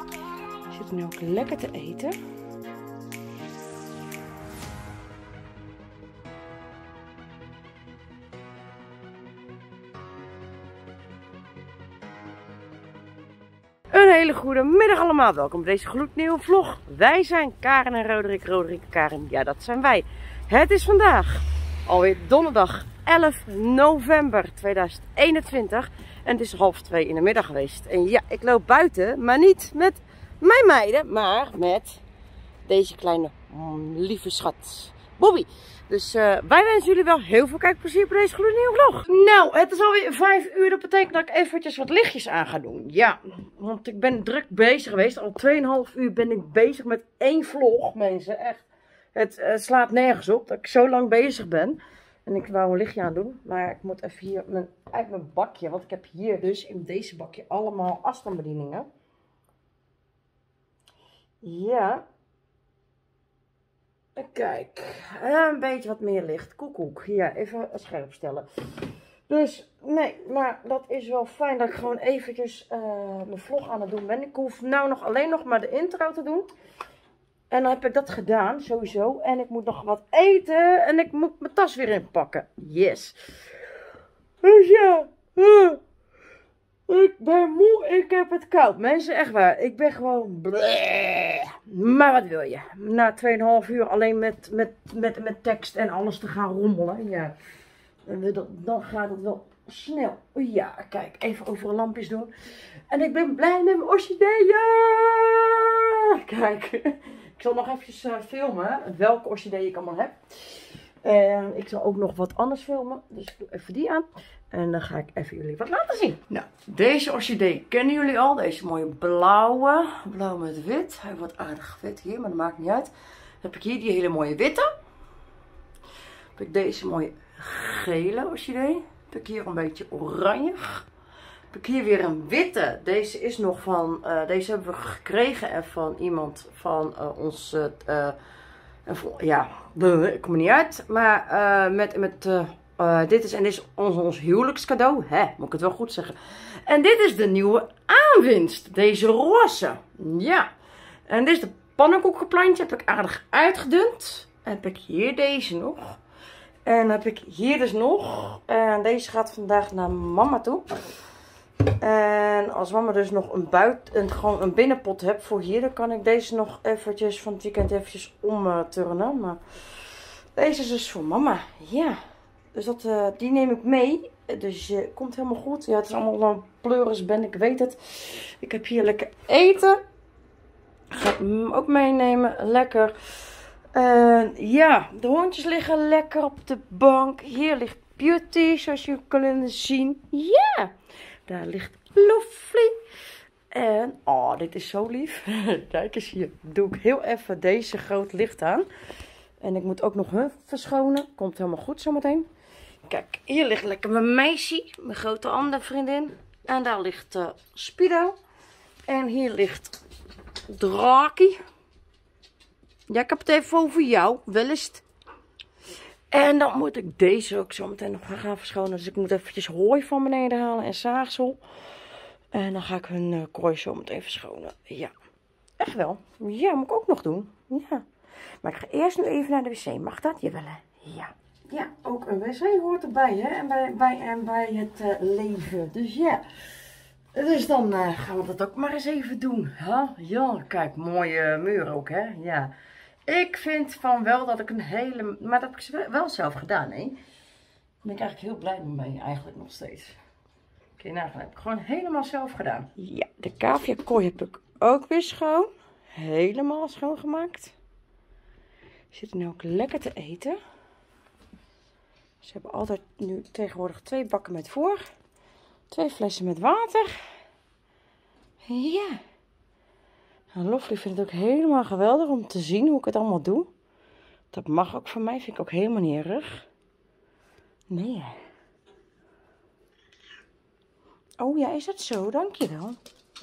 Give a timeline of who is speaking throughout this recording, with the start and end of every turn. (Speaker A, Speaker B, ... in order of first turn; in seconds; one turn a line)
Speaker A: 0.7-2.1
Speaker A: 13.9-32.0
Speaker A: 32.7-58.9
Speaker A: 61.4-62.0
Speaker A: 64.2-76.5
Speaker A: 77.5-83.5
Speaker A: 84.4-85.8
Speaker A: 86.9-97.4
Speaker A: 98.1-102.3
Speaker A: 102.9-122.9
Speaker A: 123.4-124.7
Speaker A: 126.4-130.9
Speaker A: 131.5-138.2
Speaker A: 138.9-150.5
Speaker A: 151.1-156.0
Speaker A: 156.7-160.7
Speaker A: 161.7-172.0
Speaker A: 172.5-179.8
Speaker A: 180.9-190.7
Speaker A: 191.3-192.8
Speaker A: 193.5-198.7
Speaker A: 199.4-202.3
Speaker A: 202.9-208.2
Speaker A: 208.9-209.8
Speaker A: 210.5-211.4
Speaker A: 212.9-214.8
Speaker A: 216.1-221.4
Speaker A: 222.3-224.9
Speaker A: 225.6-227.9
Speaker A: 228.4-236.2
Speaker A: 237.1-242.5
Speaker A: 243.1-247.0
Speaker A: 247.8-250.0
Speaker A: 250.8-257.5
Speaker A: 258.9-260.4
Speaker A: 262.2-264.8
Speaker A: 265.7-267.1
Speaker A: 268.4-269.0
Speaker A: 270.3-273.5
Speaker A: 274.3-276.5
Speaker A: 277.7-278.2
Speaker A: 281.2-282.8